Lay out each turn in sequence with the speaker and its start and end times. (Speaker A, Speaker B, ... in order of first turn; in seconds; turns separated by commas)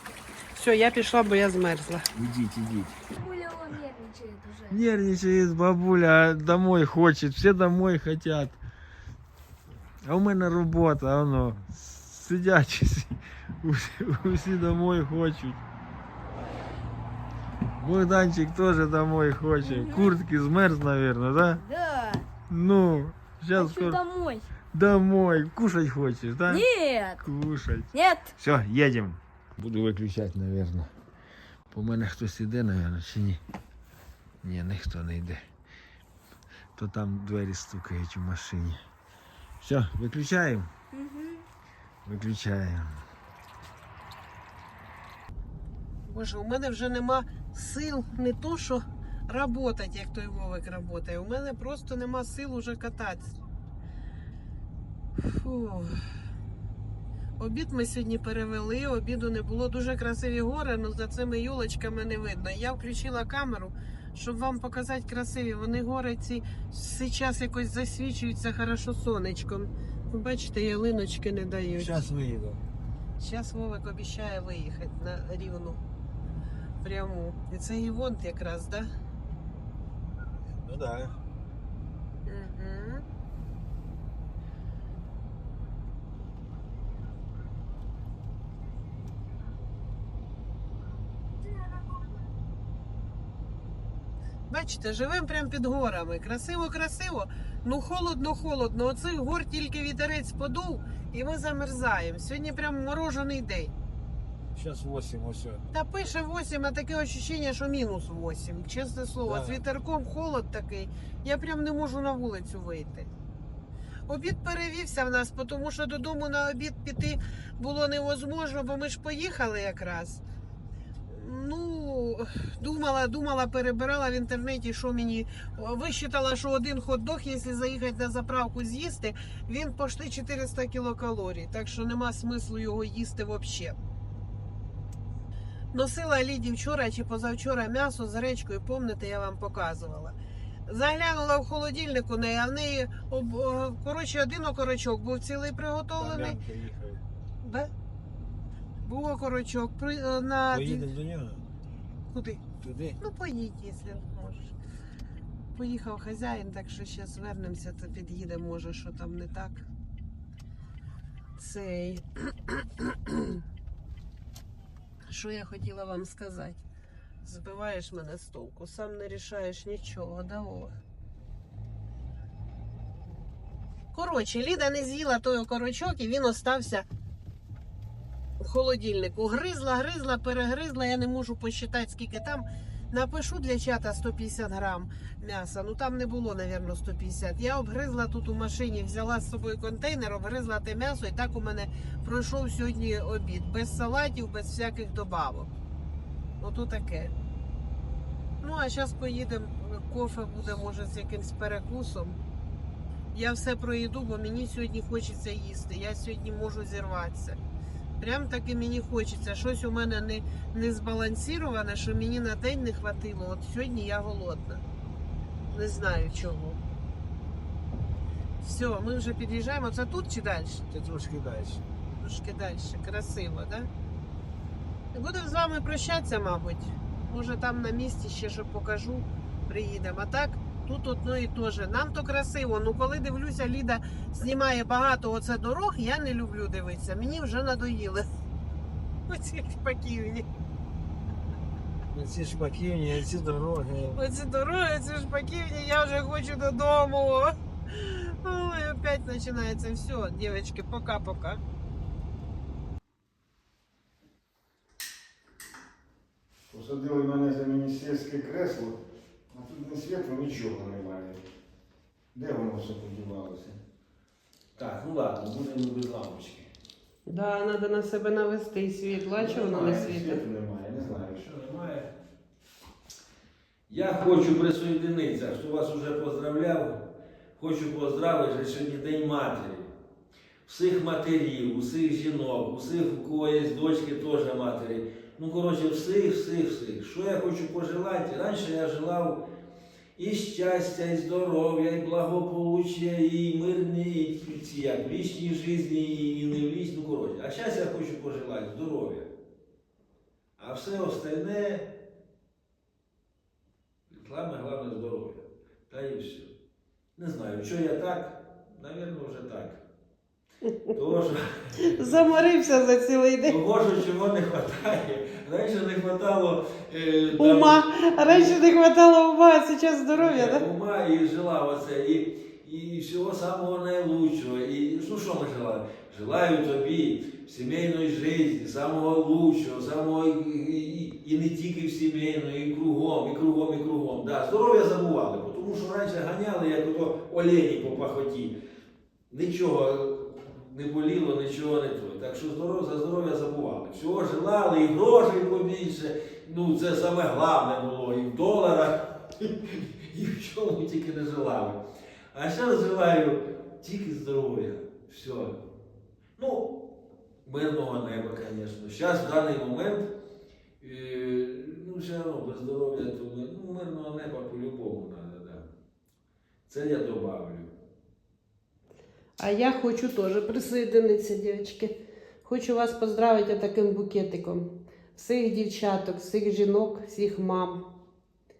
Speaker A: 0.5-2.0, Speaker B: 2.1-3.0, Speaker C: 3.1-4.8, Speaker B: 4.7-8.6, Speaker B: 10.0-15.6, Speaker B: 17.8-21.6, Speaker C: 19.6-20.1, Speaker C: 21.6-22.3, Speaker B: 22.5-24.0, Speaker C: 23.5-24.5, Speaker B: 24.7-26.6, Speaker C: 26.5-27.2, Speaker B: 27.2-30.9, Speaker C: 27.9-28.3, Speaker B: 31.7-33.4, Speaker B: 34.4-35.4, Speaker B: 36.8-38.8, Speaker B: 39.6-40.7, Speaker C: 40.9-41.4, Speaker B: 42.0-43.0, Speaker A: 46.1-53.3, Speaker A: 55.2-56.0, Speaker A: 57.4-72.0, Speaker B: 71.7-72.6, Speaker A: 73.2-75.8, Speaker A: 76.8-78.9, Speaker B: 80.5-81.2, Speaker A: 82.2-83.0, Speaker A: 94.5-103.7, Speaker B: 104.5-105.7, Speaker A: 105.7-113.1, Speaker B: 109.2-109.6, Speaker A: 114.1-120.2, Speaker A: 121.1-133.8, Speaker A: 135.7-140.2, Speaker A: 140.7-146.4, Speaker B: 146.0-147.0, Speaker A: 147.4-147.7, Speaker A: 148.8-150.9, Speaker B: 150.5-151.5, Speaker A: 152.1-152.4, Speaker B: 152.6-153.0, Speaker A: 153.0-154.5, Speaker A: 155.5-159.7, Speaker A: 161.4-163.4, Speaker A: 165.1-166.6, Speaker A: 167.2-170.8, Speaker A: 173.9-176.8, Speaker A: 178.4-195.5, Speaker A: 196.4-197.1, Speaker A: 198.4-202.2, Speaker A: 203.1-207.4, Speaker A: 208.0-214.6, Speaker A: 215.5-216.6, Speaker A: 218.4-220.6, Speaker B: 220.7-221.6, Speaker A: 221.9-223.7, Speaker A: 224.9-238.1, Speaker A: 239.1-240.2, Speaker B: 241.9-244.0, Speaker A: 243.9-251.4, Speaker B: 256.5-258.8, Speaker B: 259.3-261.2, Speaker B: 262.1-263.6, Speaker B: 264.6-266.5, Speaker A: 267.1-270.2, Speaker B: 269.1-271.9, Speaker B: 273.7-276.9, Speaker B: 277.4-279.7, Speaker B: 280.4-289.2, Speaker B: 289.9-299.1, Speaker B: 300.4-301.7, Speaker B: 303.9-306.3, Speaker B: 306.9-309.6, Speaker A: 310.5-310.8, Speaker B: 310.7-312.1, Speaker A: 311.6-313.4, Speaker B: 313.2-318.4, Speaker A: 317.2-320.4, Speaker B: 319.9-338.4, Speaker B: 339.1-355.5, Speaker B: 356.2-356.5, Speaker B: 357.2-359.9, Speaker B: 360.6-365.5, Speaker B: 366.5-367.5, Speaker A: 369.2-371.7, Speaker A: 372.2-377.6